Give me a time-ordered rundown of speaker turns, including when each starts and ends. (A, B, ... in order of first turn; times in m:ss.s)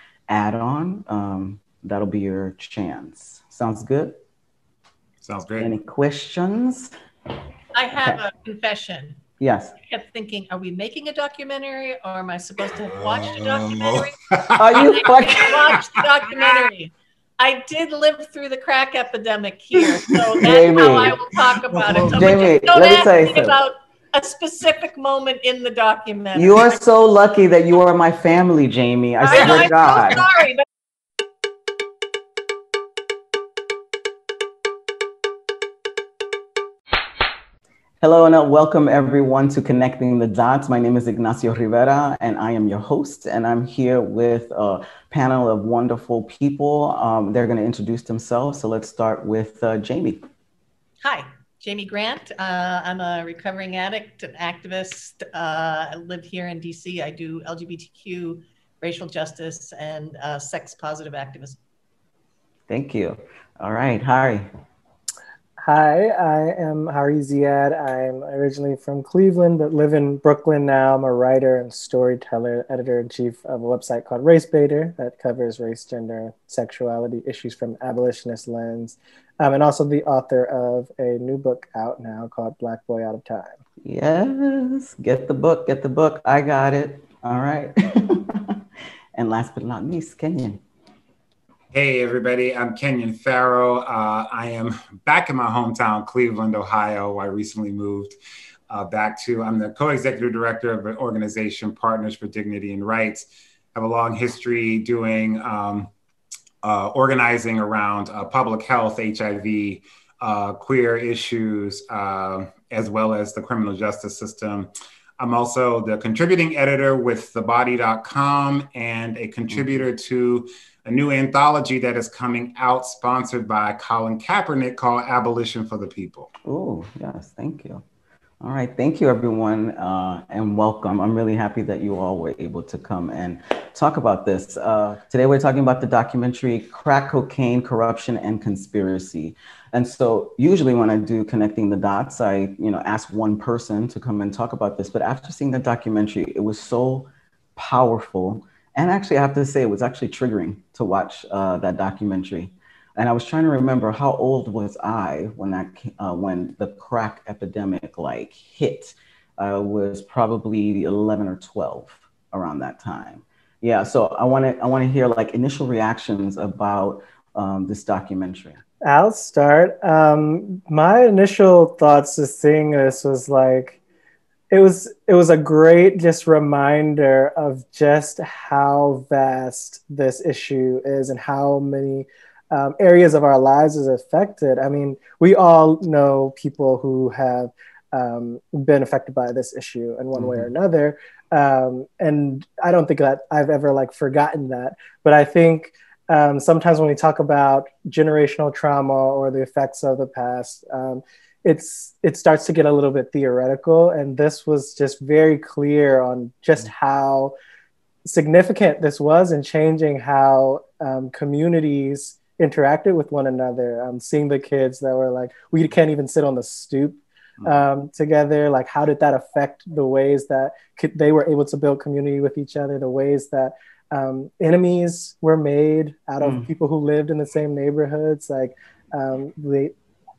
0:00.3-0:04.1 A
0:05.2-0:05.7 B
0:05.6-0:06.9 A
0:07.7-0:09.2 C
0:09.4-0:09.7 A
0:09.8-0:14.2 C
0:12.9-0:14.9 B
0:14.6-0:15.7 A
0:14.7-0:26.8 C
0:15.5-0:16.7 B
0:19.8-0:20.3 B
0:20.4-0:21.1 A
0:21.7-0:22.3 B
0:22.0-0:23.6 A
0:26.3-0:30.2 A
0:29.2-0:30.6 C
0:29.3-0:29.7 B
0:38.0-0:50.2 A
0:51.0-1:01.6 C
1:02.7-1:04.5 A
1:05.6-1:23.6 D
1:23.8-1:28.6 A
1:29.2-1:30.6 A
1:31.7-1:38.1 B
1:38.7-1:45.9 B
1:46.6-2:06.3 B
2:06.4-2:07.8 A
2:08.4-2:48.6 A
2:48.8-2:53.8 D
2:54.5-3:27.3 D
3:10.1-3:10.5 A
3:28.0-3:49.7 D
3:46.2-3:46.5 A